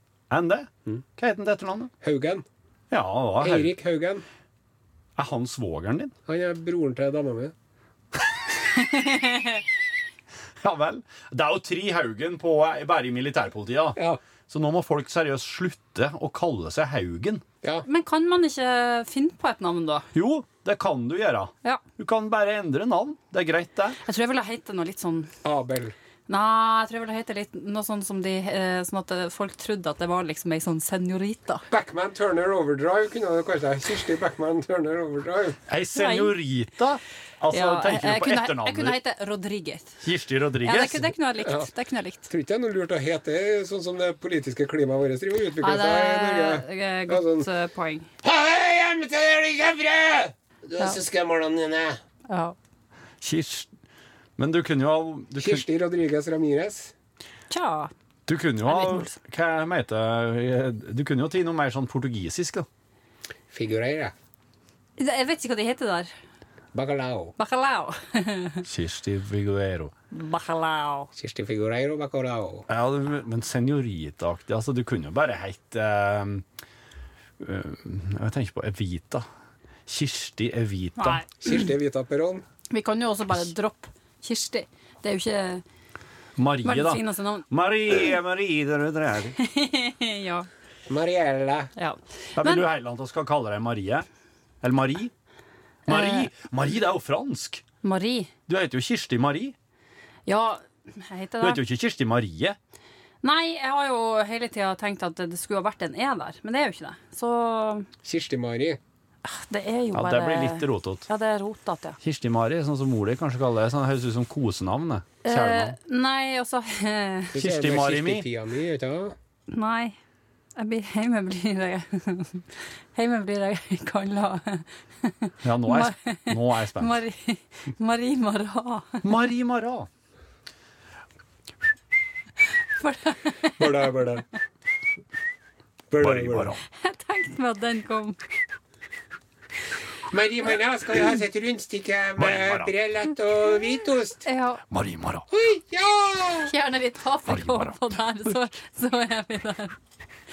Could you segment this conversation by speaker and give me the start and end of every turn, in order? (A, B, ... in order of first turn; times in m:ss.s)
0:00.3-0:01.9 A
0:02.0-0:02.4 B
0:02.9-0:03.7 A
0:03.4-0:04.2 B
0:05.2-0:06.1 A
0:06.3-0:07.5 B
0:08.7-0:09.6 C
0:10.6-0:17.4 A
0:17.8-0:20.1 C
0:20.1-0:24.0 A
0:24.0-0:25.3 C
0:25.4-0:25.9 B
0:26.3-0:31.6 C
0:31.7-0:35.6 B
0:35.7-0:39.0 A
0:35.9-0:36.3 C
0:37.5-0:40.0 C
0:40.0-0:41.1 A
0:40.6-0:42.3 C
0:41.4-0:41.7 B
0:42.3-0:47.5 B
0:45.6-0:48.1 C
0:48.2-0:52.0 B
0:52.3-0:52.6 C
0:53.2-0:53.7 A
0:54.4-0:55.6 A
0:55.4-0:56.9 B
0:57.5-0:57.9 C
0:58.3-1:02.7 A
0:58.6-0:59.1 C
1:03.5-1:04.1 B
1:05.0-1:06.1 C
1:06.7-1:07.3 B
1:07.4-1:08.6 C
1:08.6-1:09.9 A
1:10.1-1:11.1 C
1:11.1-1:12.7 B
1:12.7-1:16.4 A
1:17.4-1:19.2 A
1:19.9-1:21.2 A
1:21.0-1:21.6 C
1:21.4-1:22.4 B
1:22.7-1:25.6 C
1:26.4-1:29.4 A
1:26.6-1:27.5 C
1:29.4-1:30.5 C
1:30.9-1:31.7 B
1:31.8-1:32.6 C
1:32.4-1:34.0 A
1:34.6-1:35.1 A
1:35.9-1:37.6 A
1:35.9-1:36.3 C
1:37.8-1:38.3 C
1:38.5-1:39.5 A
1:40.2-1:41.6 C
1:41.4-1:42.6 A
1:43.2-1:47.9 C
1:48.0-1:48.8 B
1:49.2-1:52.0 C
1:49.9-1:51.0 A
1:52.0-1:55.7 A
1:55.2-1:57.4 C
1:57.3-1:59.2 B
1:57.4-1:58.3 A
1:59.5-1:59.9 C
2:00.6-2:09.0 C
2:05.4-2:07.0 A
2:09.0-2:09.9 A
2:12.8-2:13.7 C
2:13.6-2:14.2 B
2:15.9-2:16.5 B
2:16.0-2:16.6 A
2:16.8-2:18.2 C
2:20.1-2:24.2 B
2:22.2-2:22.7 A
2:24.2-2:24.6 C
2:24.7-2:25.2 A
2:25.3-2:26.5 B
2:26.4-2:29.8 C
2:27.3-2:27.9 A